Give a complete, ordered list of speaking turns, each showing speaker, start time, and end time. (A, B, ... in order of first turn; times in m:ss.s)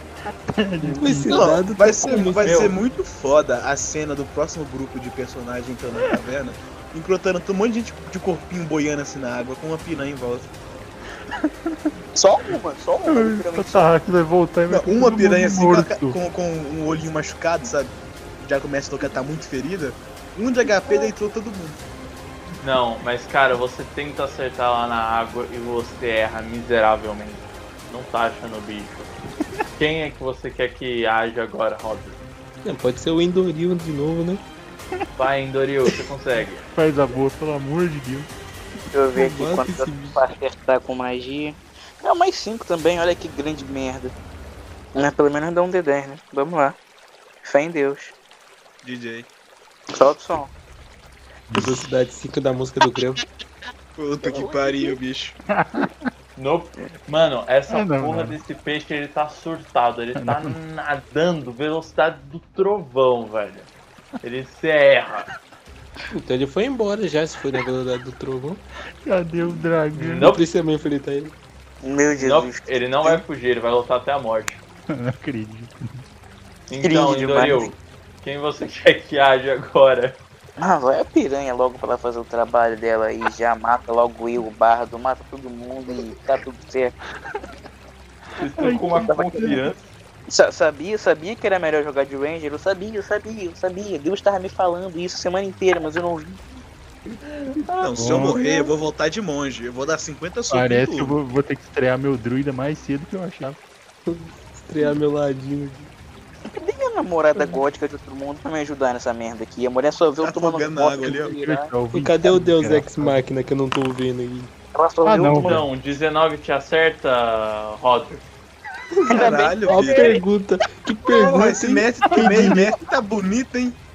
0:00.5-0:01.5 A
0:00.8-0:02.7 B
0:01.3-0:10.5 C
0:02.4-0:02.7 D
0:12.1-0:13.9 E
0:13.0-0:16.2 A
0:14.7-0:21.8 C
0:22.6-0:29.1 D
0:29.8-0:32.2 D
0:32.6-0:34.4 B
0:35.2-0:36.6 D
0:36.7-0:38.3 A
0:38.9-0:44.1 E
0:39.1-0:40.2 B
0:44.9-0:46.8 E
0:47.4-0:48.1 E
0:48.8-0:49.3 C
0:50.0-0:50.5 E
0:51.5-0:51.8 A
0:51.5-0:53.2 B
0:54.0-0:55.4 C
0:54.2-0:54.9 E
0:55.5-0:56.1 A
0:56.4-1:03.7 D
0:57.7-0:58.4 A
1:00.2-1:00.5 A
1:04.2-1:05.3 D
1:06.1-1:08.6 B
1:09.0-1:10.3 A
1:09.9-1:10.4 D
1:10.2-1:11.3 B
1:11.8-1:13.2 E
1:12.1-1:14.6 D
1:14.9-1:16.0 A
1:16.7-1:20.2 D
1:16.8-1:17.7 E
1:20.6-1:27.0 E
1:28.4-1:29.8 D
1:28.6-1:29.7 A
1:30.3-1:36.4 E
1:37.3-1:38.2 D
1:37.8-1:41.2 C
1:37.9-1:38.4 A
1:40.5-1:43.6 A
1:44.1-1:45.9 B
1:46.5-1:51.7 E
1:50.2-1:51.4 C
1:51.3-1:53.2 A
1:51.9-1:54.5 B
1:54.7-1:55.6 E
1:55.0-1:55.6 A
1:55.4-1:58.2 D
1:58.9-2:02.7 B
1:59.1-2:00.2 C
1:59.1-2:00.2 E
2:01.1-2:03.8 C
2:02.1-2:02.5 A